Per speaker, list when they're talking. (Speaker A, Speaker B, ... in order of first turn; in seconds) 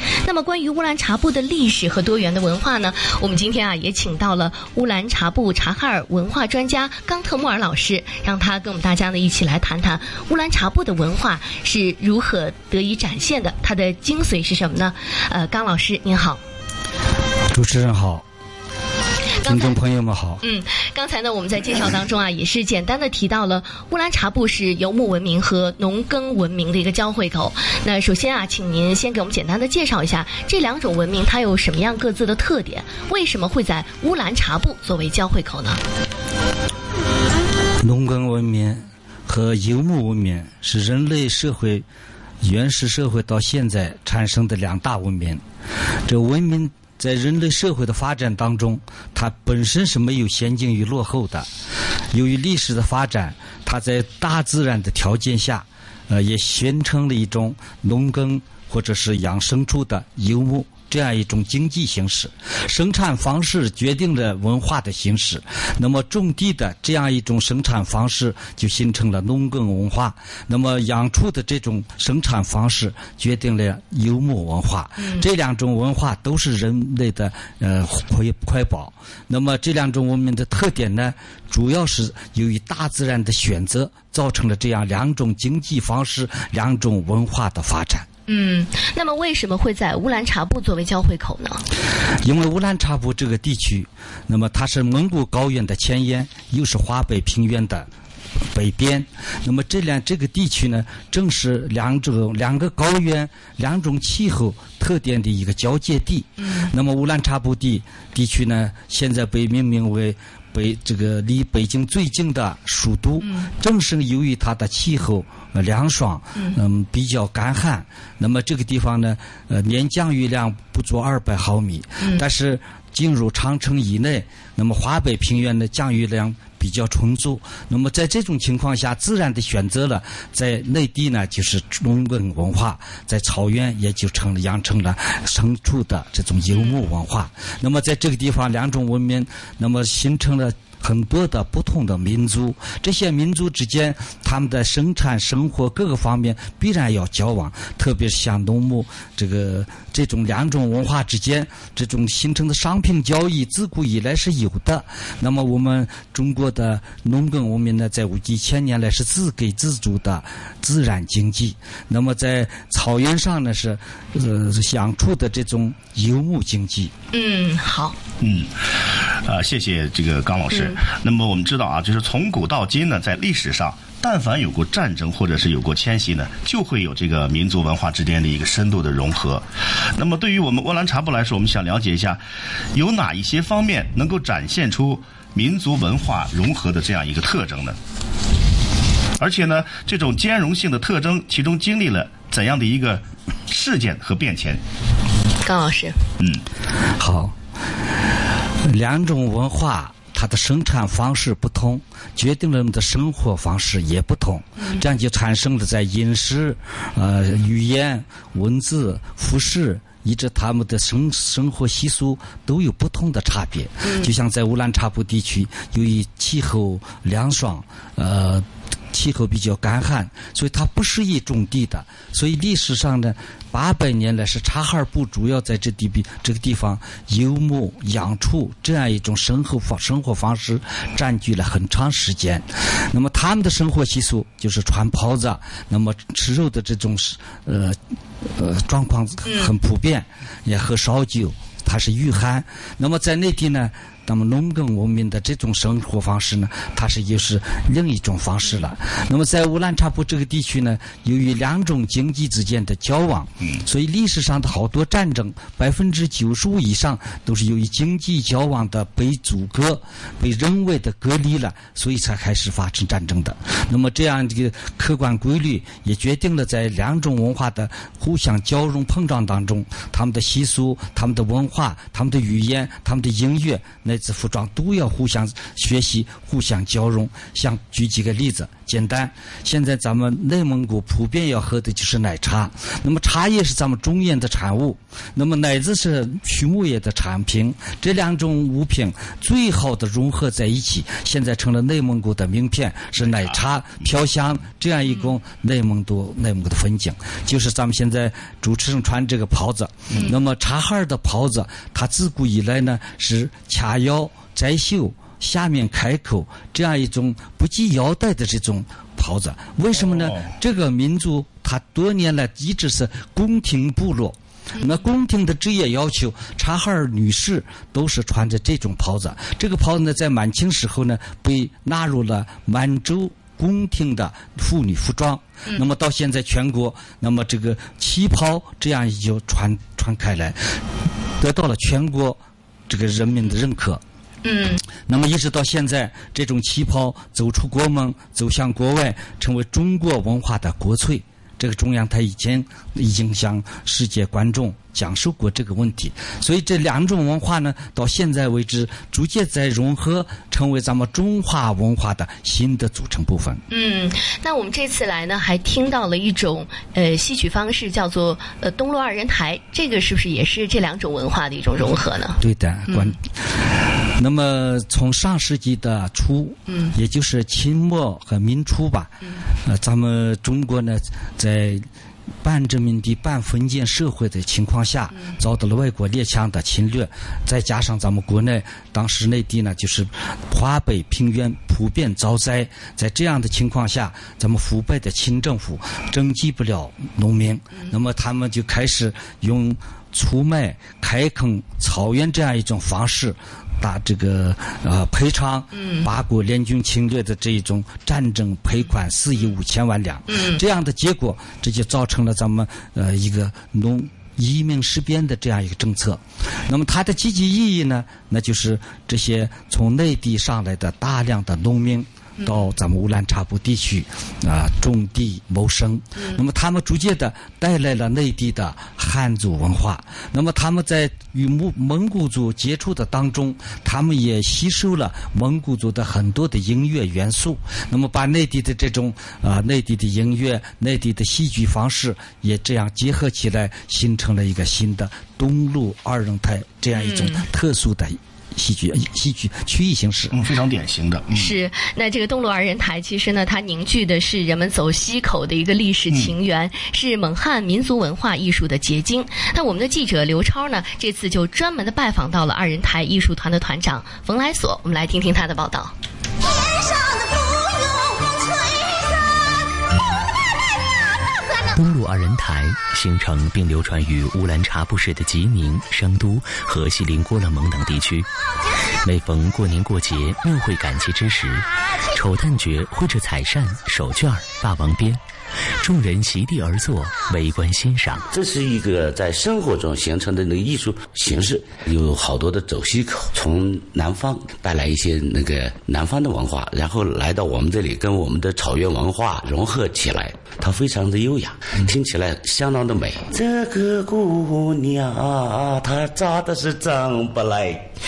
Speaker A: 0.2-16.4, 19.4-19.8, 20.4-35.8, 75.0-75.2, 88.3-91.6, 113.2-113.5, 136.5-136.8, 167.1-168.0, 170.5-170.8, 195.4-195.9, 213.8-214.1, 239.2-239.5, 294.9-295.2, 334.2-334.6, 353.5-362.9, 395.6-395.9, 400.1-400.4, 436.7-437.3, 441.1-455.7
Speaker B: 17.5-18.2, 19.5-20.4, 37.8-41.9, 42.4-45.4, 46.1-51.5, 52.1-88.1, 92.2-97.9, 98.5-166.9, 197.0-197.3, 198.7-330.4, 331.2-333.8, 334.9-353.4, 362.2-363.0, 364.0-368.9, 369.5-371.6, 372.2-440.2
Speaker C: 168.2-182.2, 182.7-187.8, 189.2-194.6, 293.0-293.4, 440.1-441.3
Speaker D: 461.5-468.1, 468.8-475.0, 475.6-478.1
Speaker E: 478.1-497.7